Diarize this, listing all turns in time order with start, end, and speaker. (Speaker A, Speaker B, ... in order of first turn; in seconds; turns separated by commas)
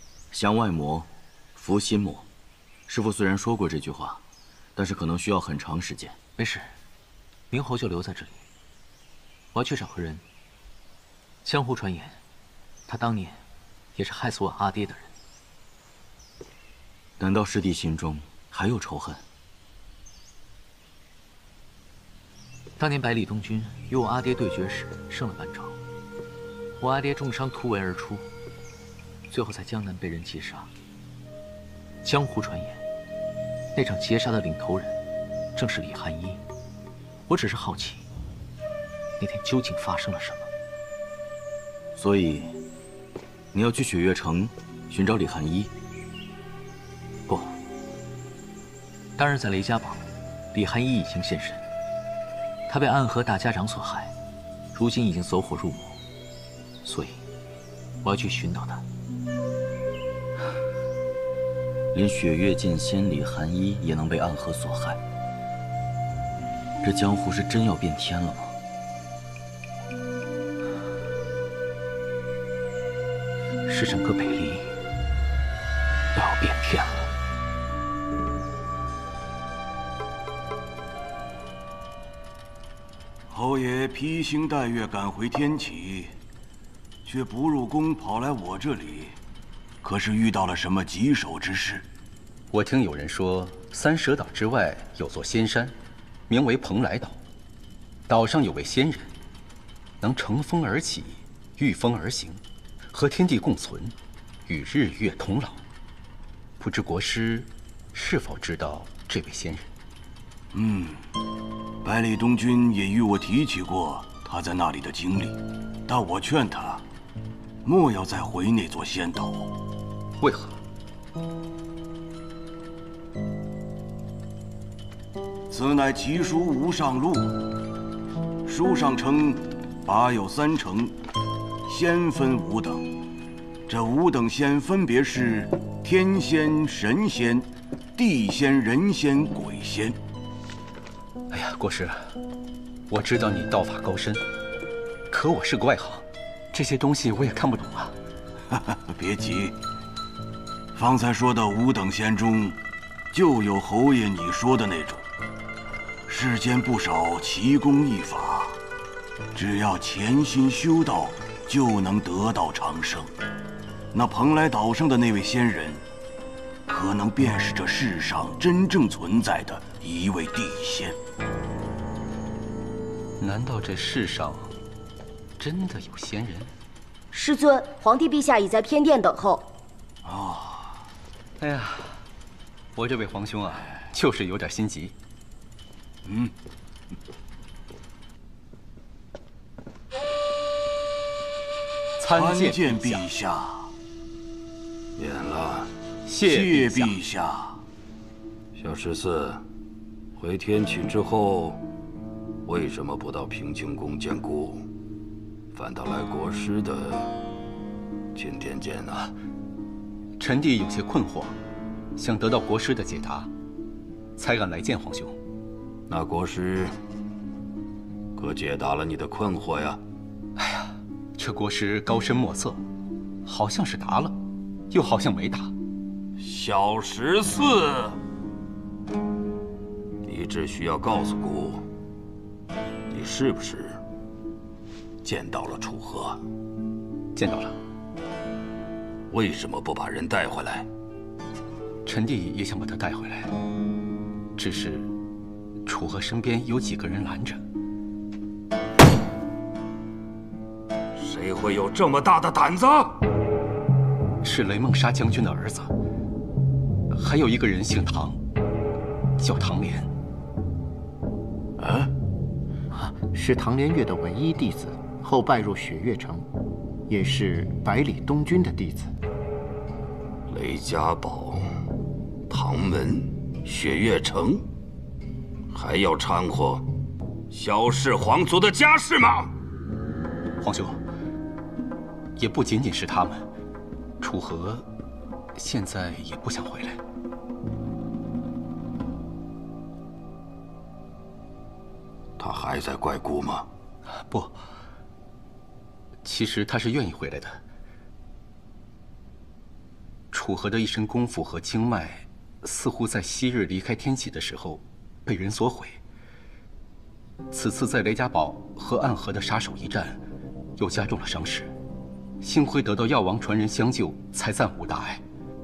Speaker A: 0.3-2.3, Speaker A: 2.9-4.2, Speaker A: 4.8-6.2, Speaker B: 6.4-6.7, Speaker B: 7.5-8.4, Speaker B: 9.5-10.2, Speaker B: 11.4-12.2, Speaker B: 12.9-13.4, Speaker B: 13.9-15.1, Speaker A: 17.2-19.2, Speaker B: 22.8-25.8, Speaker B: 26.8-28.2, Speaker B: 29.3-30.7, Speaker B: 32.0-32.8, Speaker B: 33.7-35.0, Speaker B: 35.5-36.4, Speaker B: 37.3-38.0, Speaker B: 39.2-40.5, Speaker A: 42.0-42.5, Speaker A: 43.5-45.7, Speaker B: 47.3-47.5, Speaker B: 49.2-51.6, Speaker B: 52.7-54.1, Speaker B: 54.7-56.0, Speaker B: 56.8-57.2, Speaker B: 58.0-58.8, Speaker A: 61.9-65.0, Speaker A: 66.8-68.5, Speaker B: 73.7-74.7, Speaker B: 76.1-77.1, Speaker C: 83.3-86.1, Speaker C: 87.0-89.2, Speaker C: 89.8-91.8, Speaker D: 92.5-95.8, Speaker D: 96.3-97.2, Speaker D: 98.1-99.1, Speaker D: 100.0-102.4, Speaker D: 102.9-103.9, Speaker D: 104.5-105.6, Speaker D: 106.6-109.7, Speaker C: 110.5-111.0, Speaker C: 111.8-116.8, Speaker C: 117.6-119.5, Speaker D: 120.2-120.6, Speaker C: 125.5-127.4, Speaker C: 128.4-130.9, Speaker C: 131.7-132.8, Speaker C: 133.7-140.0, Speaker D: 141.3-142.1, Speaker D: 142.9-144.2, Speaker D: 145.1-147.9, Speaker C: 148.5-149.6, Speaker C: 150.7-152.6, Speaker C: 153.1-155.0, Speaker C: 156.1-158.6, Speaker C: 159.3-163.1, Speaker C: 163.9-165.8, Speaker C: 166.7-171.0, Speaker D: 173.2-174.5, Speaker D: 175.4-176.5, Speaker E: 177.1-179.4, Speaker C: 180.0-180.7, Speaker D: 181.4-181.9, Speaker D: 182.8-184.9, Speaker C: 186.0-186.3, Speaker D: 192.0-193.1, Speaker C: 192.0-193.7, Speaker F: 195.0-195.7, Speaker D: 196.1-196.9, Speaker C: 196.2-197.6, Speaker F: 198.5-199.4, Speaker F: 200.2-201.6, Speaker F: 202.4-204.7, Speaker F: 205.5-207.1, Speaker F: 208.1-209.1, Speaker D: 210.2-211.3, Speaker D: 212.0-213.3, Speaker D: 214.2-215.2, Speaker F: 215.9-216.7, Speaker F: 218.1-219.8, Speaker D: 220.4-222.6, Speaker D: 223.2-224.2, Speaker D: 224.7-225.5, Speaker F: 226.2-227.9, Speaker F: 230.0-231.6, Speaker F: 232.9-233.8, Speaker F: 235.0-236.2, Speaker D: 237.1-237.6, Speaker F: 239.1-240.7, Speaker D: 241.8-243.3, Speaker D: 244.3-244.9, Speaker D: 245.6-247.4, Speaker F: 251.0-253.0, Speaker D: 254.2-255.7, Speaker D: 256.9-258.2, Speaker D: 259.2-259.9, Speaker G: 262.7-266.2, Speaker G: 266.9-268.9, Speaker F: 270.3-271.5, Speaker F: 272.3-274.5, Speaker F: 275.5-276.7, Speaker F: 277.3-279.3, Speaker D: 280.4-280.8, Speaker D: 282.1-283.3, Speaker D: 284.0-284.7, Speaker D: 285.3-286.8, Speaker F: 292.2-293.5, Speaker D: 293.9-294.4, Speaker D: 296.0-297.4, Speaker D: 300.1-305.8, Speaker D: 307.3-310.0, Speaker D: 310.6-311.5, Speaker D: 312.2-315.0